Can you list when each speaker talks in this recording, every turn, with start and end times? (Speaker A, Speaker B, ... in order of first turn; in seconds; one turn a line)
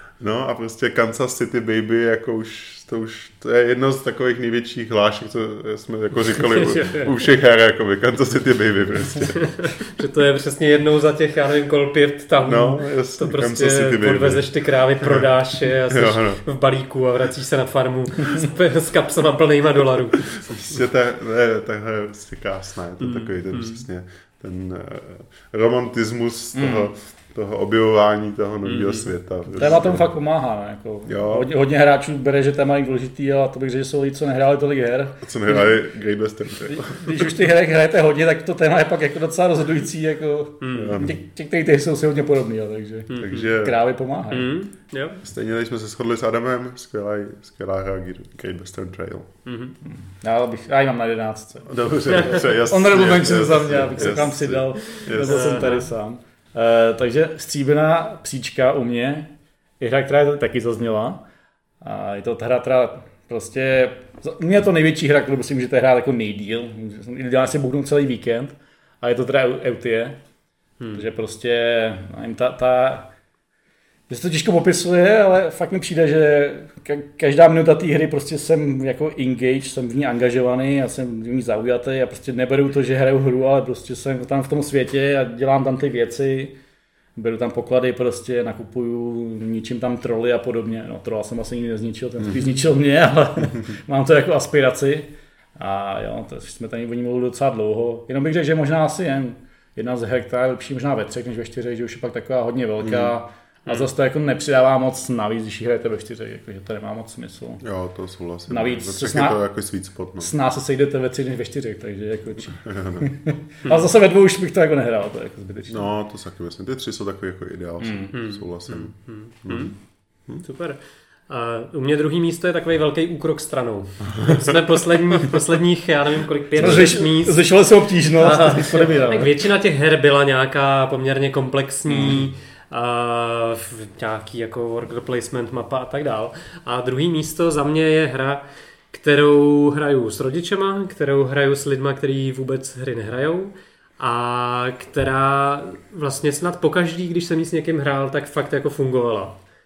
Speaker A: 0.2-9.6
Speaker B: 6.5-7.2
Speaker B: 9.4-20.5
Speaker A: 12.4-14.5
Speaker A: 15.9-16.4
Speaker A: 20.4-30.1
Speaker B: 23.0-23.8
Speaker C: 26.5-26.9
Speaker B: 28.6-29.1
Speaker C: 29.6-35.2
Speaker A: 31.1-31.5
Speaker A: 35.2-37.3
Speaker C: 36.7-44.5
Speaker B: 40.6-41.0
Speaker A: 40.7-41.2
Speaker B: 43.1-43.4
Speaker A: 43.1-43.8
Speaker B: 44.3-45.2
Speaker A: 45.2-49.3
Speaker B: 49.5-49.7
Speaker C: 50.1-61.2
Speaker A: 51.6-55.8
Speaker B: 52.1-52.4
Speaker B: 55.1-55.9
Speaker C: 61.8-70.2
Speaker C: 70.9-73.1
Speaker C: 74.1-86.5
Speaker C: 87.2-107.6
Speaker A: 102.8-103.1
Speaker A: 107.6-110.3
Speaker C: 108.5-109.4
Speaker C: 110.2-115.9
Speaker A: 112.6-113.0
Speaker A: 115.7-119.8
Speaker C: 117.8-118.2
Speaker B: 118.1-119.7
Speaker B: 120.4-127.5
Speaker A: 124.2-124.5
Speaker A: 126.6-127.0
Speaker C: 126.6-129.3
Speaker B: 128.2-149.4
Speaker C: 131.9-132.2